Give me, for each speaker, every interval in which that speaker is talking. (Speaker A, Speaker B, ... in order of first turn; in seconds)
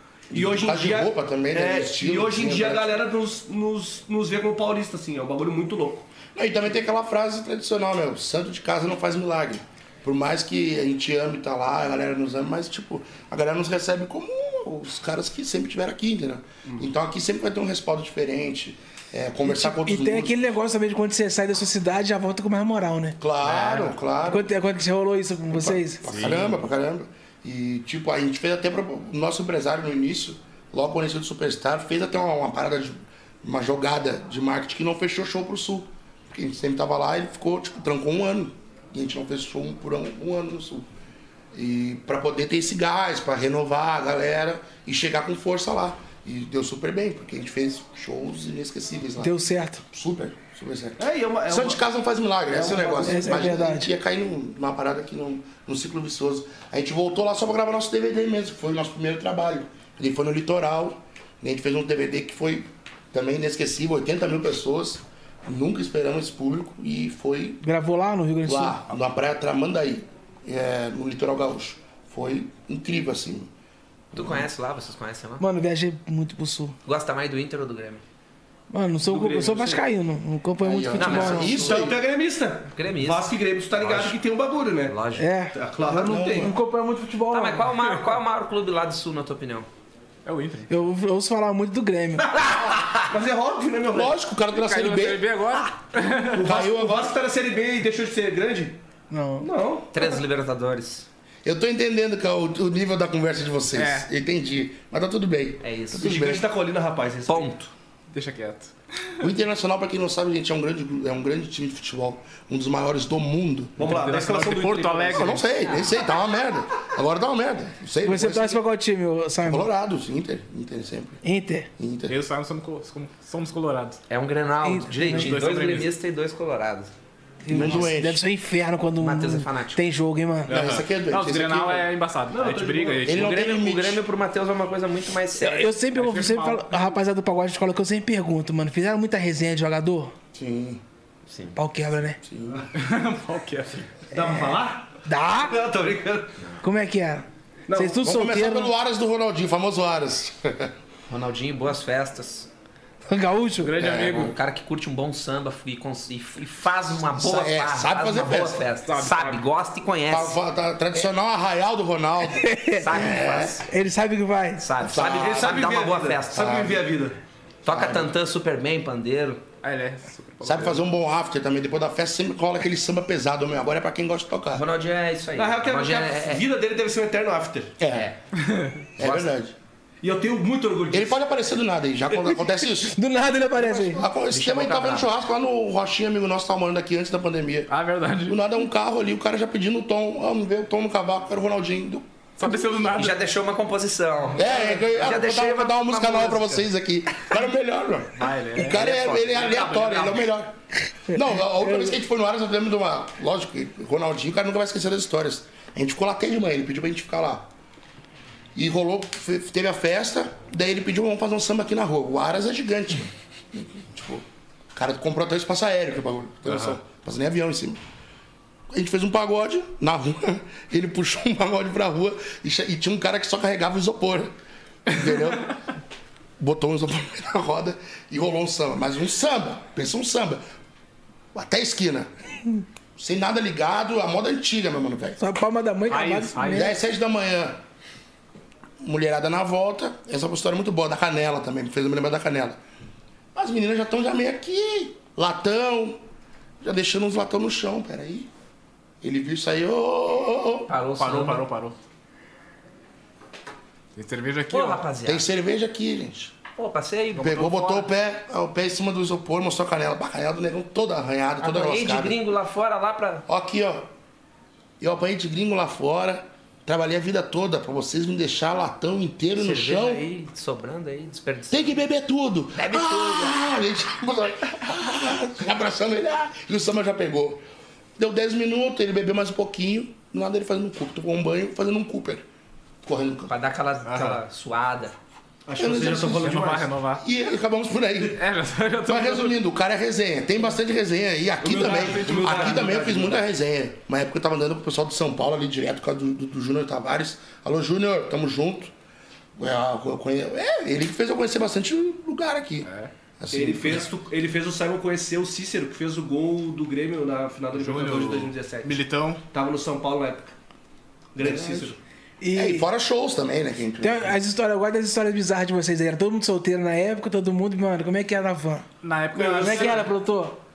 Speaker A: 0.3-3.0, 6.3-20.4, 23.2-24.5, 25.5-40.9, 41.5-49.3, 49.9-67.6, 68.4-73.5, 74.1-74.5, 80.6-82.0, 85.9-86.5, 93.9-95.3, 96.4-97.1, 101.4-106.4, 109.2-113.8, 115.1-118.6, 119.4-121.2, 121.8-122.2, 127.5-128.2, 130.5-131.9, 133.0-134.0, 140.3-140.8, 142.2-142.7, 148.0-150.7, 153.8-154.3, 157.1-158.6, 160.1-163.6, 164.8-165.6, 166.4-166.8, 167.7-168.2, 170.4-174.6, 177.8-178.1, 179.0-179.5, 180.9-183.0, 183.6-187.7, 188.2-192.1, 194.3-207.5, 208.5-217.8, 218.7-224.3, 224.9-225.6, 226.4-230.4, 231.3-232.1, 232.9-235.2, 236.5-237.6, 238.8-242.6, 243.3-246.0, 246.6-248.3, 249.0-250.7, 255.0-256.3, 257.2-262.2, 263.3-263.9, 264.8-270.0, 271.5-277.4, 278.0-282.2, 282.8-283.3, 285.6-286.3, 287.0-288.2, 288.9-298.7, 299.4-302.7, 303.2-303.8, 311.2-311.7, 312.3-314.1
Speaker B: 0.3-6.1, 51.0-51.8, 52.5-53.4, 79.1-79.8, 81.5-85.0, 85.5-86.5, 92.3-94.2, 96.3-98.8, 99.4-100.2, 106.0-107.5, 113.8-115.4, 132.3-133.2, 144.1-146.4, 147.7-148.0, 164.9-167.2, 175.3-177.7, 180.0-181.2, 285.4-286.7, 291.4-293.2, 303.3-310.3, 311.1-311.8, 319.1-319.8
Speaker C: 19.4-23.2, 24.2-26.0, 49.2-49.8, 52.8-53.9, 67.6-68.8, 75.4-76.8, 78.7-81.6, 85.2-87.7, 90.7-92.3, 99.1-99.5, 118.0-119.7, 121.2-121.7, 124.6-125.3, 127.4-130.5, 135.4-140.1, 141.5-142.2, 145.1-145.5, 146.6-148.7, 153.0-153.8, 162.3-163.0, 163.6-164.7, 182.9-184.1, 201.1-201.9, 235.2-236.8, 312.2-312.7, 313.8-318.7, 319.4-320.4
Speaker D: 26.0-26.5, 90.2-90.7, 94.5-96.5, 103.7-104.1, 108.1-109.2, 113.8-115.5, 122.1-124.0, 125.0-125.9, 130.5-133.4, 135.9-137.0, 142.7-144.0, 153.6-154.3, 158.8-159.4, 169.6-170.8, 178.4-178.8, 187.7-188.4, 192.4-193.2, 198.2-200.2, 235.9-236.7, 251.0-251.8, 253.9-254.9, 257.4-257.8, 283.9-284.2, 286.2-287.0, 288.1-289.4, 291.4-292.7, 302.6-302.9, 307.5-309.2, 318.8-319.9
Speaker E: 74.1-75.4, 76.8-78.0, 80.9-82.0, 82.7-83.3, 84.9-85.3, 87.3-89.7, 99.9-101.1, 105.6-106.2, 107.3-107.7, 124.1-126.9, 129.0-129.8, 133.1-135.7, 141.3-141.6, 151.1-152.5, 154.0-160.4, 162.8-163.7, 164.6-166.8, 167.6-169.4, 174.5-176.4, 177.9-178.2, 184.3-185.1, 192.9-196.6, 250.7-251.5, 254.5-255.3, 256.5-257.8, 261.4-263.2, 269.3-271.8, 272.5-273.4, 283.3-284.9